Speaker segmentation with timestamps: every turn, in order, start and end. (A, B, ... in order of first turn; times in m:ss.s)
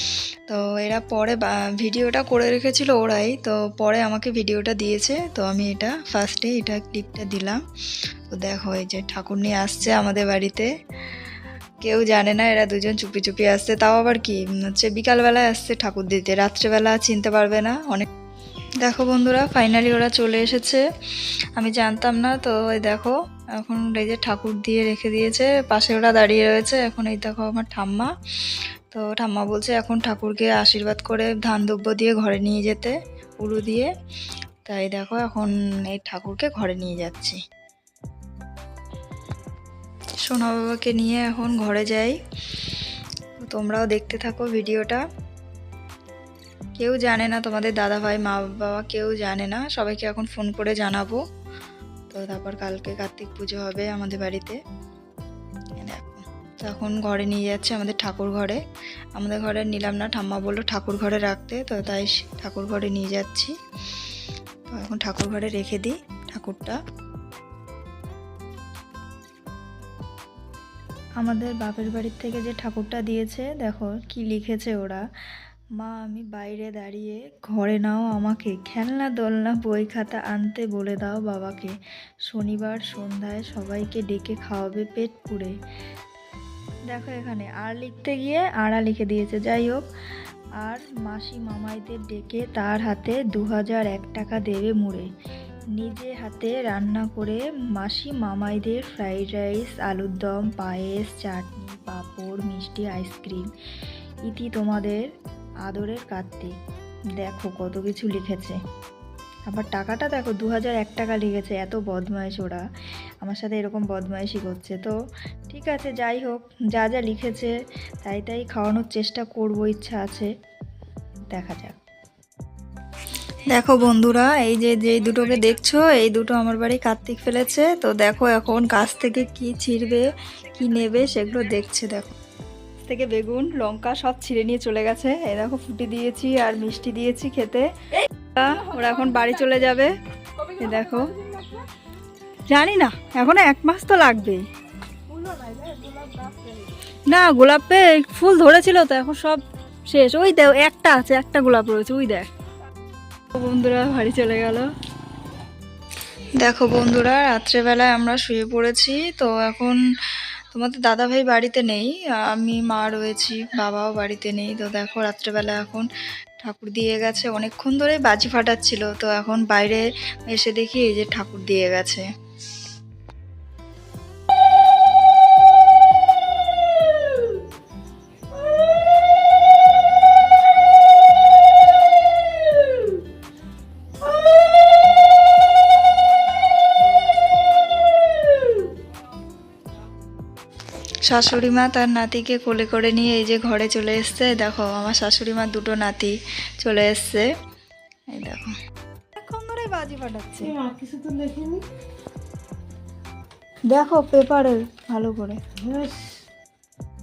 0:00.5-0:07.6 A
0:08.3-0:10.7 A
0:11.8-0:18.1 A
0:18.8-0:20.8 A
0:21.6-0:28.1 A
0:28.9-0:33.9 A
0:34.7-0:37.4 A
0:40.2-0:42.2 A
0:43.4-0:45.0 A
0:46.8-0:51.2 A
0:52.1-0:54.6 A
0:55.8-0:58.6 A
0:59.2-1:03.5 A
1:04.7-1:06.8 A
1:11.2-1:15.0 A
1:15.8-1:21.7 A
1:22.3-1:25.5 A
1:26.9-1:29.8 A
1:30.6-1:35.1 A
1:35.8-1:43.5 A
1:44.3-1:45.0 A
1:45.7-1:46.5 A
1:47.2-1:48.6 A
1:49.5-1:52.6 A
1:53.2-1:54.9 A
1:55.5-2:00.3 A
2:01.3-2:01.8 A
2:03.4-2:12.2 A
2:12.8-2:17.7 A
2:18.3-2:19.9 A
2:20.6-2:21.1 A
2:20.8-2:21.7 B
2:22.5-2:24.4 A
2:25.1-2:26.8 B
2:27.1-2:32.3 A
2:33.3-2:34.7 A
2:36.4-2:39.8 A
2:40.5-2:45.9 A
2:46.4-2:52.0 A
3:11.1-3:17.3 A
3:18.1-3:18.5 A
3:19.2-3:20.6 A
3:20.4-3:21.6 B
3:23.7-3:25.4 A
3:25.6-3:26.1 B